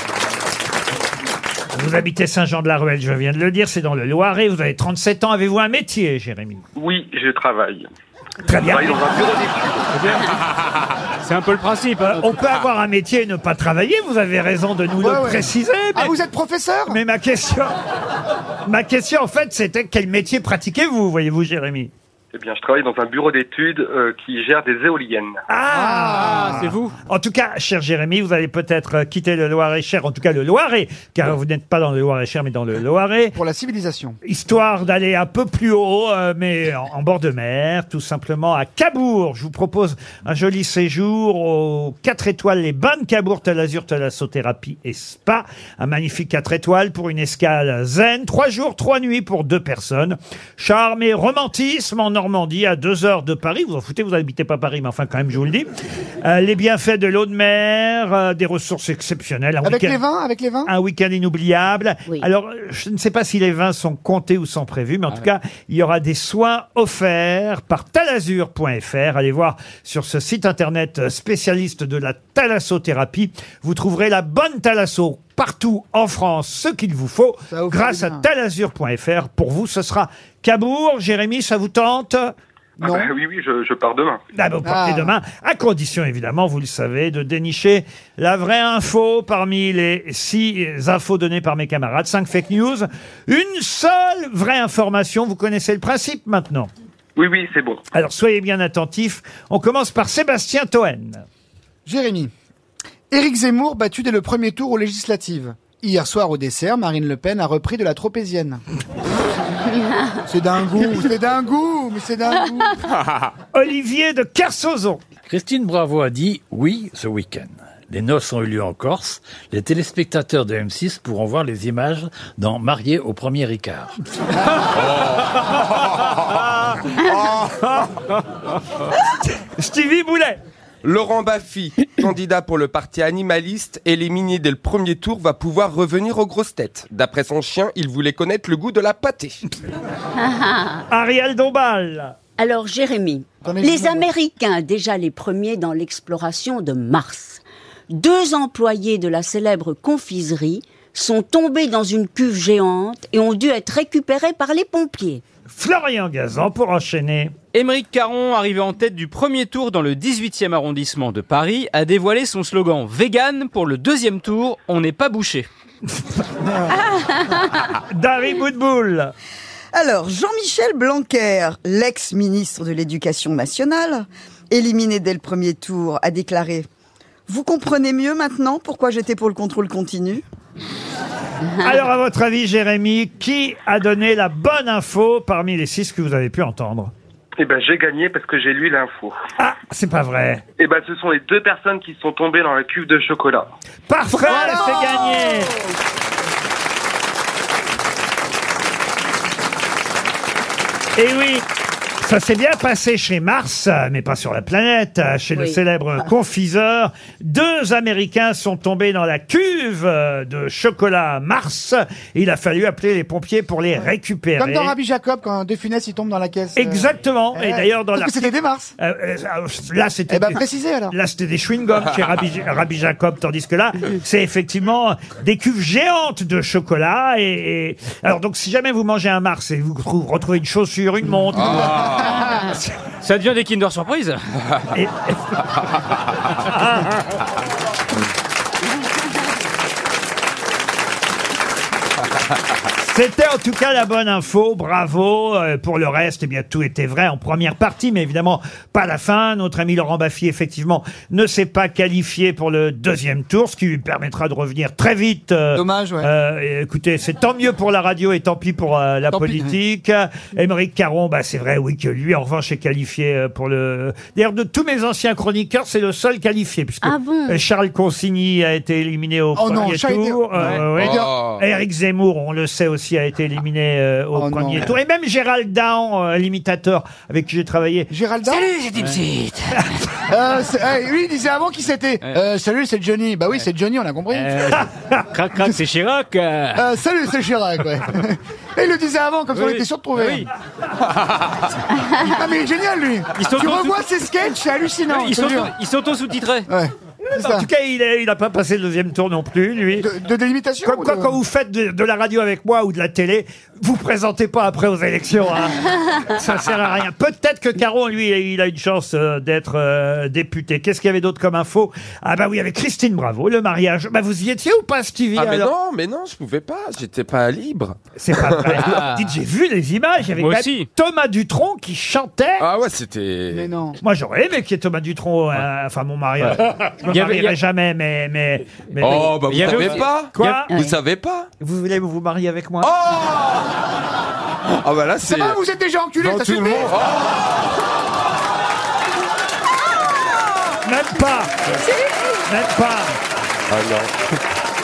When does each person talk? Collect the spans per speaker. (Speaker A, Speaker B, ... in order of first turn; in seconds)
Speaker A: 1.7-6.6, 8.4-9.4, 12.0-16.1, 16.9-17.7, 18.6-21.9, 25.5-33.4, 34.2-55.7, 56.2-60.0, 60.6-82.3, 84.3-96.7, 97.9-101.2, 113.5-115.0, 127.1-127.9, 129.2-130.4, 140.9-142.2, 155.5-157.3, 167.7-169.1, 181.6-186.9, 189.4-190.4, 193.9-195.5, 201.0-201.4, 202.0-214.7, 216.6-220.4, 220.9-232.6, 234.7-235.4, 236.2-237.0, 242.7-277.9, 284.6-285.0, 297.1-299.9, 300.6-315.5, 317.9-322.4, 323.8-330.5, 331.4-332.7, 340.6-341.5, 342.3-343.0
Speaker B: 6.8-7.8, 8.6-10.2, 22.3-25.4, 82.8-84.2, 97.2-97.8, 187.4-189.2, 190.6-193.5
Speaker C: 11.2-12.2, 26.2-26.9, 157.5-165.5, 233.0-234.3, 278.3-279.9, 284.1-284.6, 285.1-286.7, 289.3-290.3, 293.1-293.8, 294.9-296.5, 318.6-319.1, 320.1-320.7, 326.8-327.4, 328.9-330.4
Speaker D: 15.0-17.0, 25.7-26.7, 33.3-34.2, 59.6-60.7, 77.5-78.2, 82.8-83.1, 84.6-85.1, 101.8-102.3, 103.1-108.6, 110.2-112.8, 143.4-144.1, 166.4-166.8, 194.2-195.1, 214.4-218.7, 220.1-220.9, 255.5-256.1, 259.1-259.6, 269.3-271.1, 274.1-274.7, 277.9-278.5, 280.1-284.6, 286.5-290.3, 291.8-295.5, 296.5-297.5, 299.8-301.2, 323.3-323.8, 335.0-336.7
Speaker E: 115.3-123.9
Speaker F: 124.7-125.9, 130.8-139.4, 231.3-232.1, 270.8-271.4, 315.1-318.6, 322.4-323.5, 328.8-331.3, 332.6-333.4, 334.6-335.4, 336.0-337.1, 343.5-343.9
Speaker G: 140.2-140.8, 142.4-155.2, 266.8-267.4
Speaker H: 169.7-176.7, 177.3-180.2